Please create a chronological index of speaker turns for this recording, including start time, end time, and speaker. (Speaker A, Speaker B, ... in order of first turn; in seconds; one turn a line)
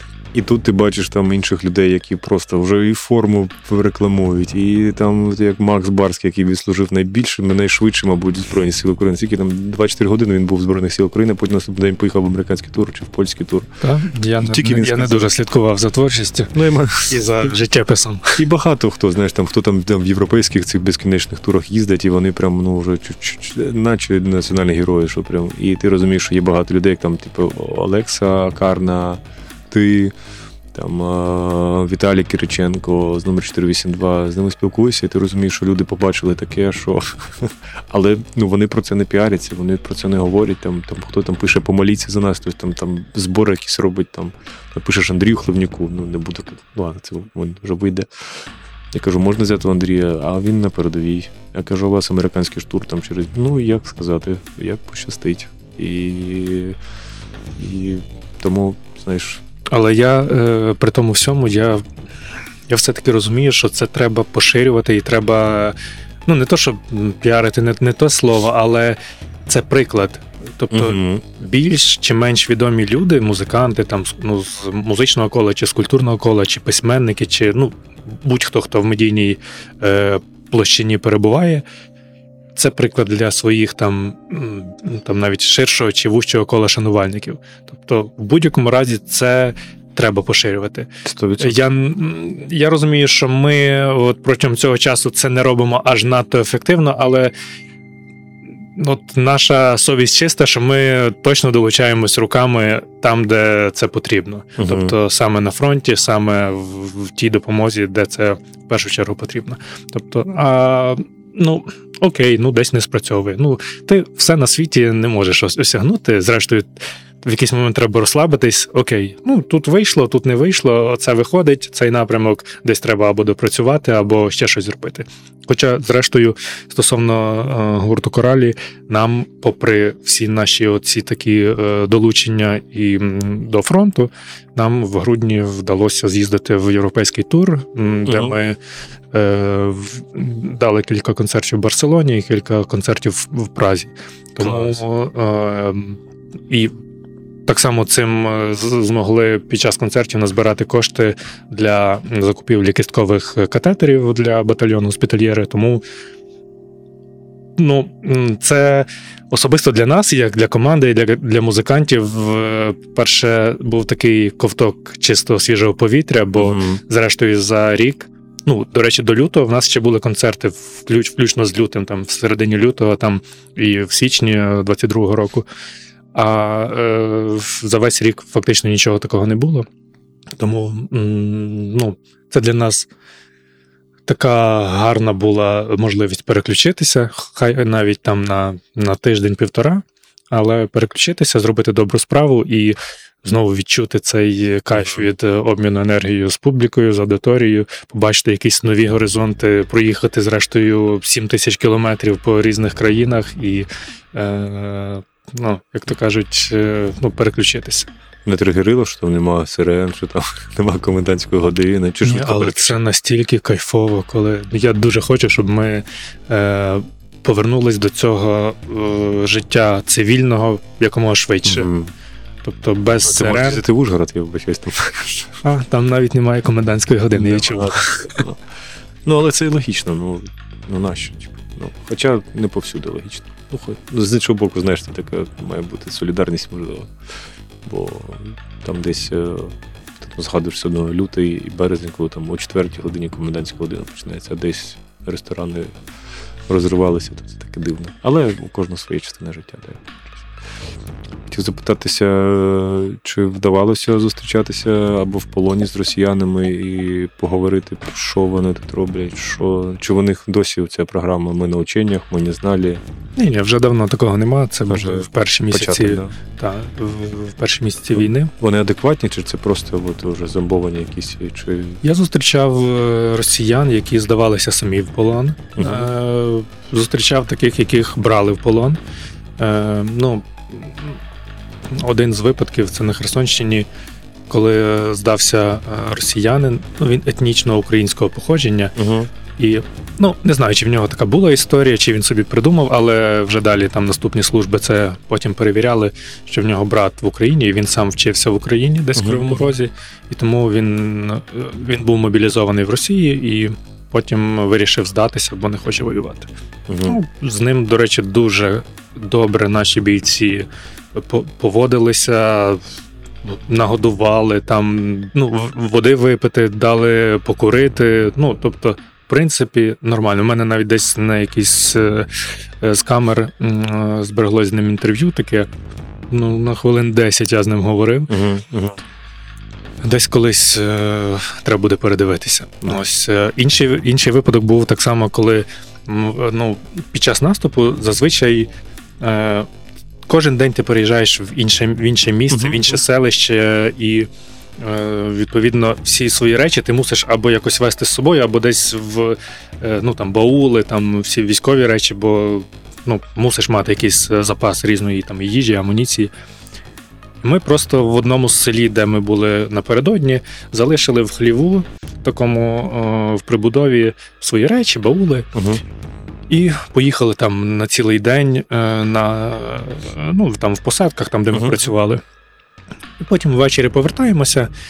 Speaker A: 0.3-13.7
Speaker B: 13.8-16.5
Speaker A: 14.4-15.2
Speaker A: 16.5-17.2
Speaker B: 17.1-18.4
Speaker A: 18.4-30.1
Speaker A: 30.7-56.8
Speaker A: 57.6-59.4
Speaker B: 59.7-61.8
Speaker B: 62.7-65.7
Speaker B: 66.2-81.6
Speaker A: 70.7-71.2
Speaker B: 82.5-97.3
Speaker A: 91.0-91.5
Speaker B: 98.8-138.6
Speaker A: 104.6-104.9
Speaker A: 138.1-138.3
Speaker B: 139.1-146.7
Speaker A: 144.4-144.8
Speaker B: 147.5-155.8
Speaker B: 157.6-175.4
Speaker A: 166.4-166.8
Speaker B: 176.1-179.7
Speaker B: 180.4-182.9
Speaker B: 184.1-207.9
Speaker A: 208.2-212.8
Speaker B: 212.0-221.7
Speaker A: 221.4-221.9
Speaker B: 222.4-223.6
Speaker A: 223.0-225.4
Speaker B: 225.4-228.2
Speaker A: 227.1-228.4
Speaker A: 229.0-236.9
Speaker A: 237.6-245.7
Speaker A: 246.5-250.3
Speaker A: 251.3-262.8
Speaker B: 263.1-268.3
Speaker A: 264.7-266.1
Speaker A: 267.9-271.8
Speaker B: 271.8-278.8
Speaker A: 275.6-275.9
Speaker B: 279.4-281.0
Speaker B: 281.7-283.7
Speaker B: 284.3-288.7
Speaker A: 288.8-289.1
Speaker B: 289.4-306.3
Speaker A: 298.9-299.4
Speaker A: 306.7-307.0
Speaker B: 306.9-312.6
Speaker B: 313.2-325.5
Speaker B: 326.1-328.1
Speaker A: 328.1-328.8
Speaker B: 329.8-338.5
Speaker B: 339.0-339.5
Speaker B: 340.1-344.1
Speaker A: 342.3-342.6
Speaker B: 344.6-356.1
Speaker B: 357.2-365.3
Speaker A: 365.3-365.6
Speaker B: 366.3-372.0
Speaker A: 371.3-371.6
Speaker B: 373.0-374.5